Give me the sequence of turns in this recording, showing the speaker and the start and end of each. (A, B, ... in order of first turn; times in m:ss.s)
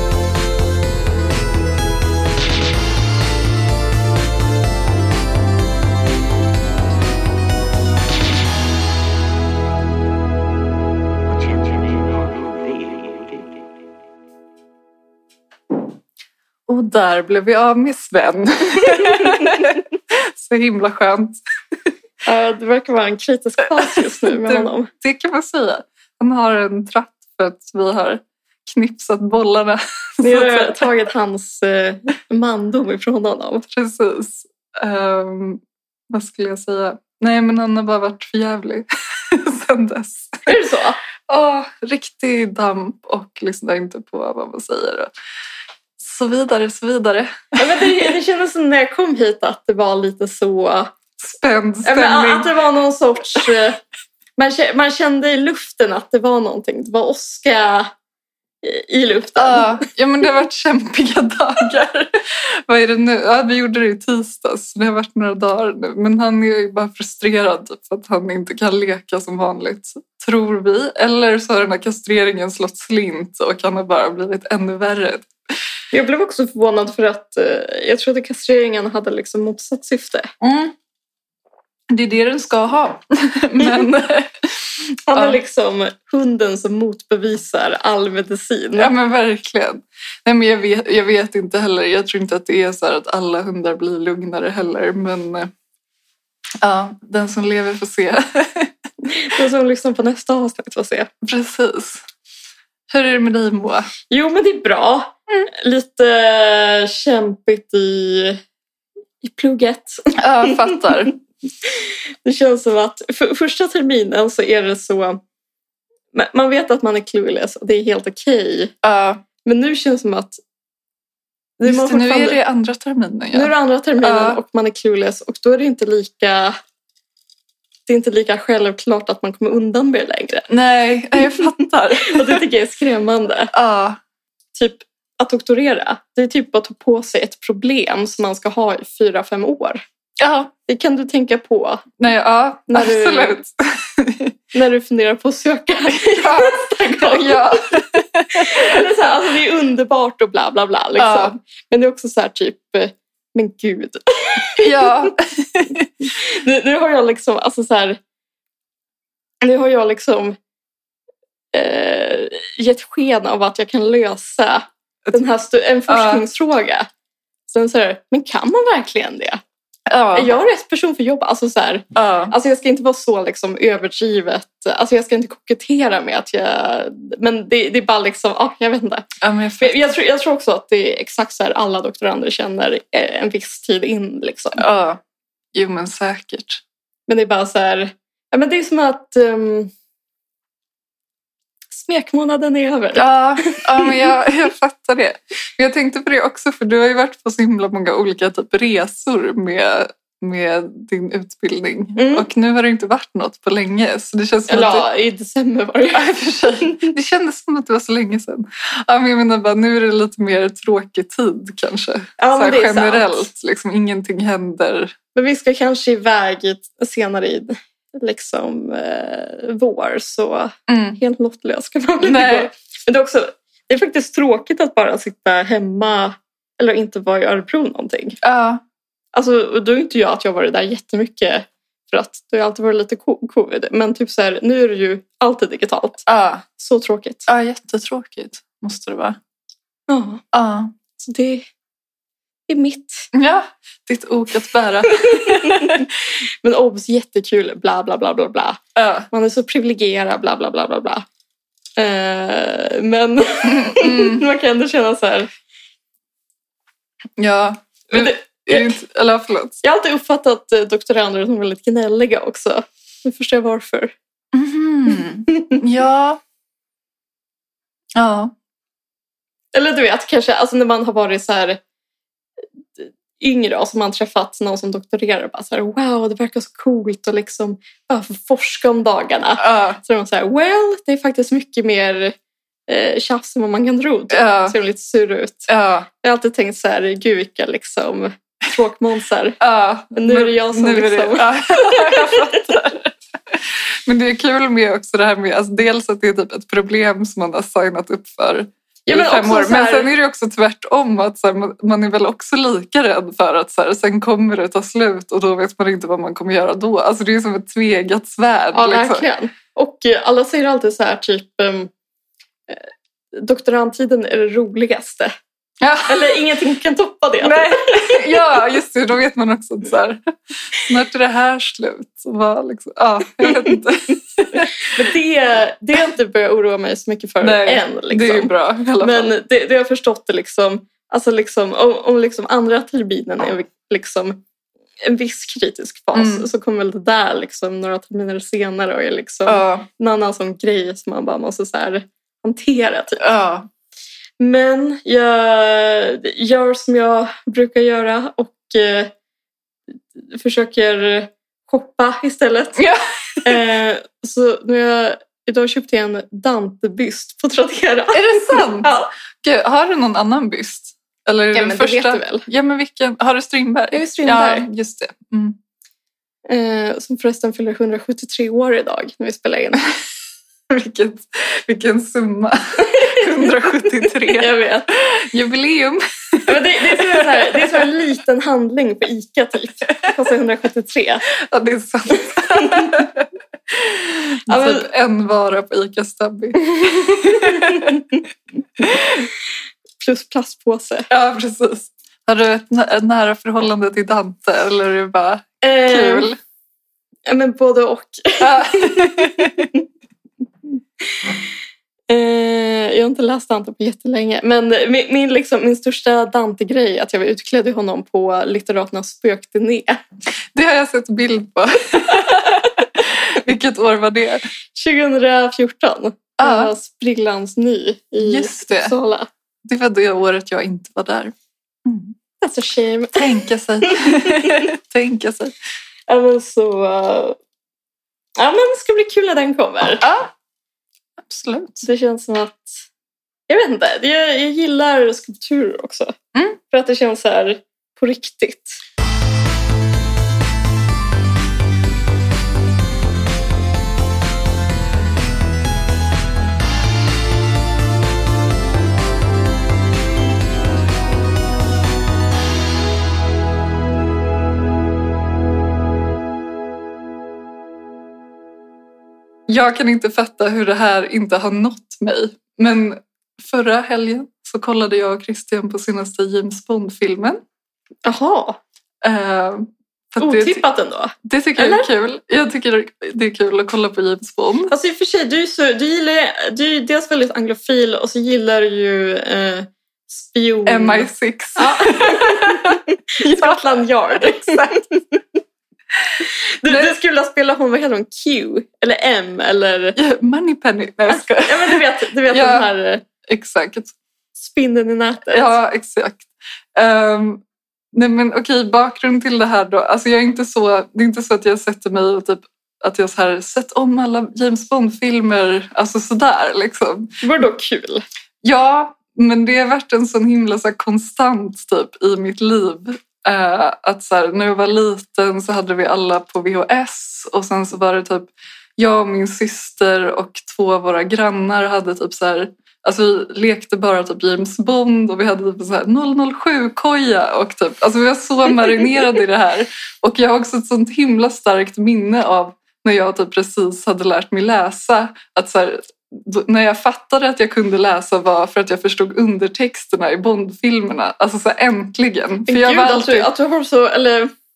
0:11.3-0:13.8 A
0:16.7-0:21.4 B
0:19.1-0:19.6 C
0:22.2-0:24.9 C
0:23.8-0:30.9 B
0:30.2-0:33.6 C
0:33.7-0:40.5 B
0:40.5-0:41.0 C
0:41.3-0:45.1 B
0:46.0-0:48.1 B
0:47.6-0:50.9 C
0:51.2-0:52.5 B
0:51.8-0:53.8 C
0:54.4-0:57.9 C
0:58.6-0:59.8 C
0:59.4-1:15.3 B
1:15.9-1:20.3 C
1:20.4-1:20.7 B
1:21.9-1:25.4 B
1:25.1-1:28.9 C
1:28.8-1:35.5 B
1:36.6-1:38.7 B
1:39.1-1:41.1 C
1:41.2-1:42.0 B
1:42.9-1:43.9 B
1:44.1-1:48.4 C
1:49.2-1:51.1 C
1:50.2-1:51.1 B
1:51.6-1:55.2 C
1:56.1-1:58.7 C
1:58.8-1:59.2 B
1:59.4-2:00.4 C
2:01.6-2:02.4 C
2:01.7-2:04.4 B
2:03.3-2:06.6 C
2:07.9-2:10.5 C
2:10.5-2:12.4 B
2:11.3-2:13.5 C
2:13.5-2:14.0 B
2:14.5-2:19.8 C
2:20.2-2:20.5 B
2:20.6-2:21.8 C
2:22.0-2:24.3 B
2:22.7-2:23.4 C
2:24.5-2:27.6 C
2:25.9-2:28.9 B
2:28.3-2:35.1 C
2:31.0-2:31.3 B
2:34.6-2:35.9 B
2:36.1-2:38.0 C
2:39.4-2:40.4 C
2:41.5-2:46.9 C
2:45.9-2:46.2 B
2:47.5-2:49.4 C
2:49.9-2:50.3 B
2:50.1-2:59.0 C
2:51.9-2:52.3 B
2:59.2-2:59.9 B
2:59.6-3:04.6 C
3:04.6-3:05.0 B
3:05.5-3:06.6 B
3:07.1-3:09.7 C
3:11.7-3:14.1 C
3:13.0-3:24.8 B
3:22.0-3:22.3 C
3:24.5-3:26.9 C
3:25.9-3:34.9 B
3:32.2-3:33.2 C
3:35.1-3:48.2 C
3:40.7-3:41.0 B
3:42.0-3:42.5 B
3:48.2-3:48.6 B
3:49.1-3:57.2 C
3:56.1-3:56.4 B
3:57.3-3:59.2 B
3:59.9-4:00.2 C
4:00.3-4:00.7 B
4:01.0-4:01.4 C
4:02.5-4:03.1 C
4:03.1-4:05.8 B
4:05.0-4:05.9 C
4:06.4-4:08.6 C
4:08.8-4:09.1 B
4:09.1-4:11.0 C
4:11.8-4:15.3 C
4:13.4-4:14.2 B
4:17.2-4:19.6 B
4:17.9-4:18.7 C
4:19.6-4:23.9 C
4:24.3-4:26.2 B
4:25.3-4:25.6 C
4:27.9-4:28.3 B
4:29.5-4:31.6 C
4:32.8-4:42.1 C
4:39.4-4:39.8 B
4:42.7-4:45.5 C
4:44.1-4:44.5 B
4:45.5-4:45.9 B
4:46.0-4:49.4 C
4:49.4-5:09.0 B
4:49.9-4:52.4 C
4:58.8-4:59.9 C
5:08.5-5:11.7 C
5:12.5-5:15.1 C
5:15.6-5:16.2 B
5:15.9-5:18.4 C
5:17.2-5:20.0 B
5:20.5-5:24.8 B
5:24.6-5:34.2 C
5:27.2-5:29.2 B
5:34.8-5:43.0 C
5:35.9-5:36.3 B
5:39.2-5:39.6 B
5:43.0-5:43.5 B
5:44.2-5:48.9 C
5:50.1-5:52.6 C
5:52.6-5:53.4 B
5:53.2-5:58.9 C
5:57.9-5:58.7 B
5:59.2-6:05.4 B
6:01.3-6:02.2 C
6:03.7-6:04.5 C
6:06.3-6:09.7 C
6:10.5-6:17.7 B
6:12.7-6:14.7 C
6:16.3-6:21.1 C
6:21.2-6:27.8 B
6:22.0-6:22.8 C
6:24.3-6:24.6 C
6:26.5-6:28.0 C
6:28.6-6:29.0 B
6:29.8-6:30.9 C
6:30.9-6:36.2 B
6:35.4-6:36.1 C
6:37.0-6:39.6 C
6:38.2-6:39.5 B
6:41.9-6:49.8 C
6:50.3-6:54.2 B
6:52.2-6:52.5 C
6:54.5-6:59.1 C
6:56.2-6:56.5 B
6:58.0-6:58.7 B
6:59.4-7:01.1 B
7:01.6-7:01.9 B
7:02.2-7:03.1 C
7:02.9-7:05.3 B
7:03.7-7:04.4 C
7:05.9-7:07.2 C
7:08.2-7:09.9 C
7:09.8-7:10.1 B
7:11.0-7:11.6 B
7:11.6-7:12.6 C
7:13.3-7:16.0 C
7:16.5-7:18.6 C
7:39.3-7:47.2 B
7:47.8-7:48.4 C
7:48.8-7:50.4 B
7:50.0-7:51.7 C
7:51.0-7:54.5 B
7:54.5-8:05.0 C
8:00.4-8:04.6 B
8:06.4-8:09.8 C
8:06.4-8:06.7 B
8:09.8-8:12.5 B
8:10.9-8:12.8 C
8:13.0-8:13.7 B
8:14.2-8:15.4 C
8:15.1-8:26.9 B
8:27.0-8:27.8 C
8:28.2-9:03.1 B
9:02.2-9:04.1 C